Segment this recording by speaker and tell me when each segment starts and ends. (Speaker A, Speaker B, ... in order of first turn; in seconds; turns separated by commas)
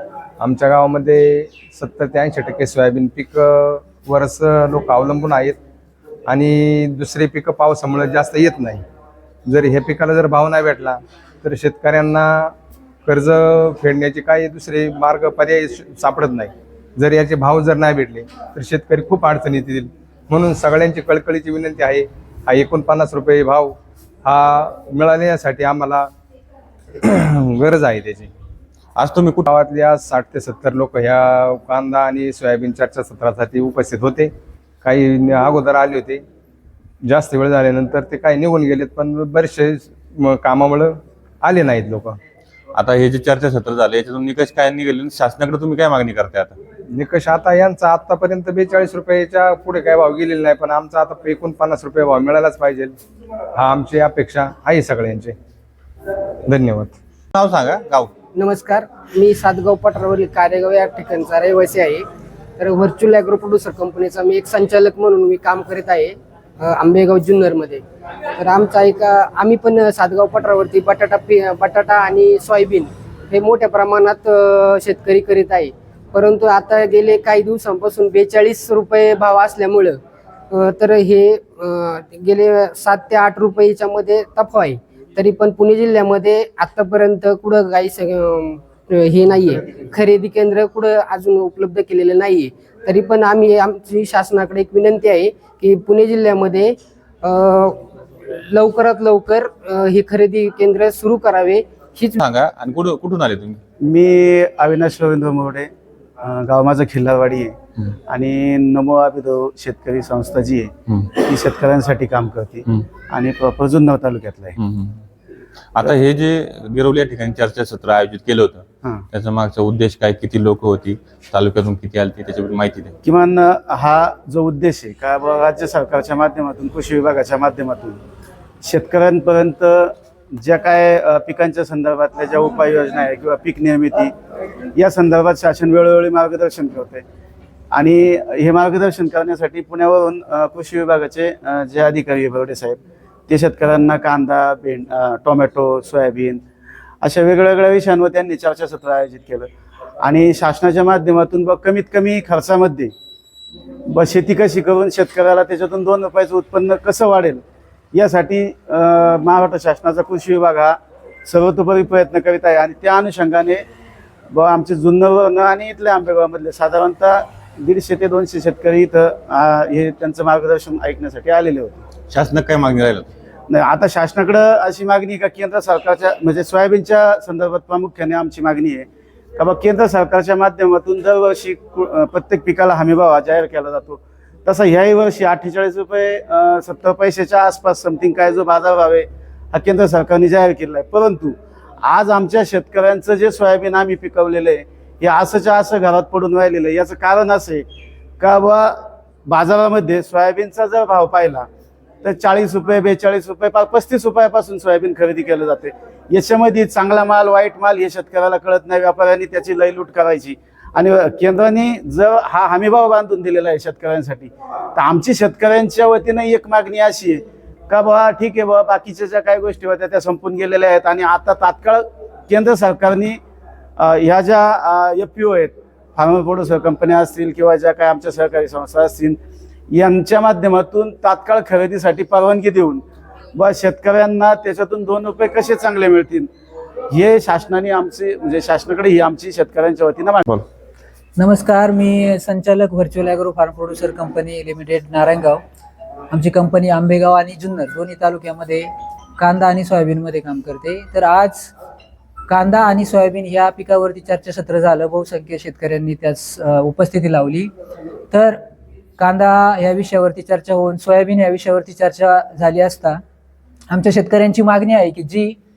Speaker A: 0.4-5.6, Speaker A: 6.3-8.8, Speaker A: 9.5-12.5, Speaker A: 13.1-26.1, Speaker A: 27.0-28.3, Speaker B: 29.0-29.5, Speaker A: 29.5-34.3, Speaker A: 34.8-36.2, Speaker A: 37.0-42.2, Speaker B: 42.8-46.6, Speaker A: 46.9-53.0, Speaker A: 53.5-55.4, Speaker A: 56.5-57.0, Speaker B: 57.3-58.1, Speaker C: 58.4-80.0, Speaker C: 80.5-102.2, Speaker B: 102.2-103.6, Speaker D: 103.8-105.7, Speaker D: 106.2-107.5, Speaker D: 108.1-114.6, Speaker B: 114.6-115.0, Speaker B: 115.7-122.9, Speaker D: 123.0-128.0, Speaker D: 128.6-134.1, Speaker D: 134.8-137.0, Speaker D: 137.7-146.4, Speaker D: 147.0-149.5, Speaker D: 150.0-152.9, Speaker D: 153.9-157.4, Speaker D: 157.9-163.6, Speaker D: 164.3-171.8, Speaker B: 172.1-173.1, Speaker D: 173.5-197.7, Speaker D: 198.2-201.5, Speaker D: 202.0-223.2, Speaker D: 223.8-229.2, Speaker D: 229.7-232.8, Speaker D: 233.4-236.3, Speaker D: 236.9-240.3, Speaker E: 241.2-245.4, Speaker E: 246.1-251.5, Speaker E: 252.3-257.5, Speaker E: 258.1-258.4, Speaker E: 259.0-263.0, Speaker E: 263.7-265.4